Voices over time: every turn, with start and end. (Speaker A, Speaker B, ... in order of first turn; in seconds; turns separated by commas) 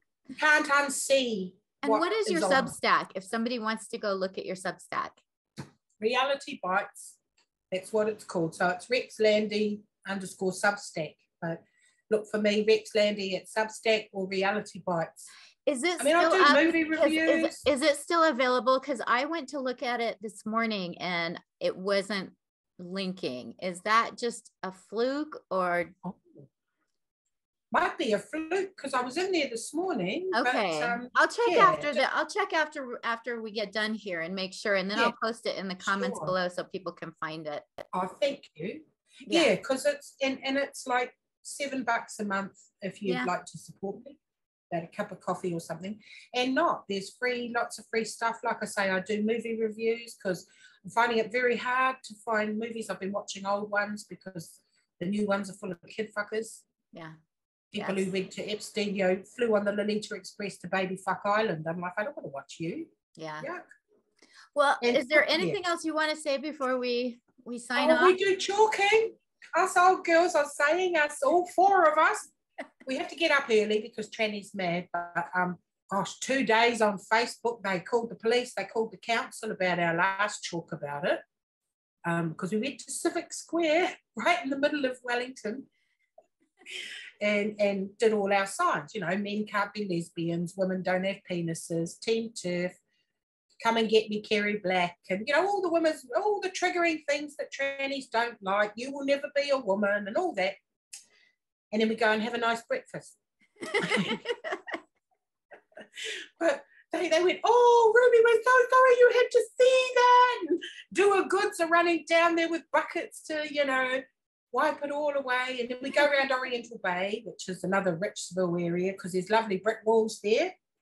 Speaker A: 0.3-2.7, Speaker B: 1.8-5.2, Speaker A: 6.0-7.2, Speaker A: 7.7-15.3, Speaker B: 15.7-25.9, Speaker A: 16.0-17.6, Speaker A: 26.0-26.4, Speaker A: 27.7-32.0, Speaker B: 30.3-37.7, Speaker A: 35.8-36.3, Speaker A: 37.9-44.2, Speaker B: 39.3-39.5, Speaker B: 43.0-43.3, Speaker A: 44.7-56.6, Speaker A: 57.7-63.6, Speaker B: 57.8-58.1, Speaker B: 63.1-63.5, Speaker B: 64.5-68.2, Speaker A: 64.8-65.6, Speaker A: 67.8-72.3, Speaker A: 72.8-81.2, Speaker A: 82.0-85.7, Speaker A: 87.2-92.8, Speaker A: 93.6-100.5, Speaker A: 101.7-103.2, Speaker B: 103.6-104.8, Speaker A: 103.8-104.2, Speaker A: 106.0-120.5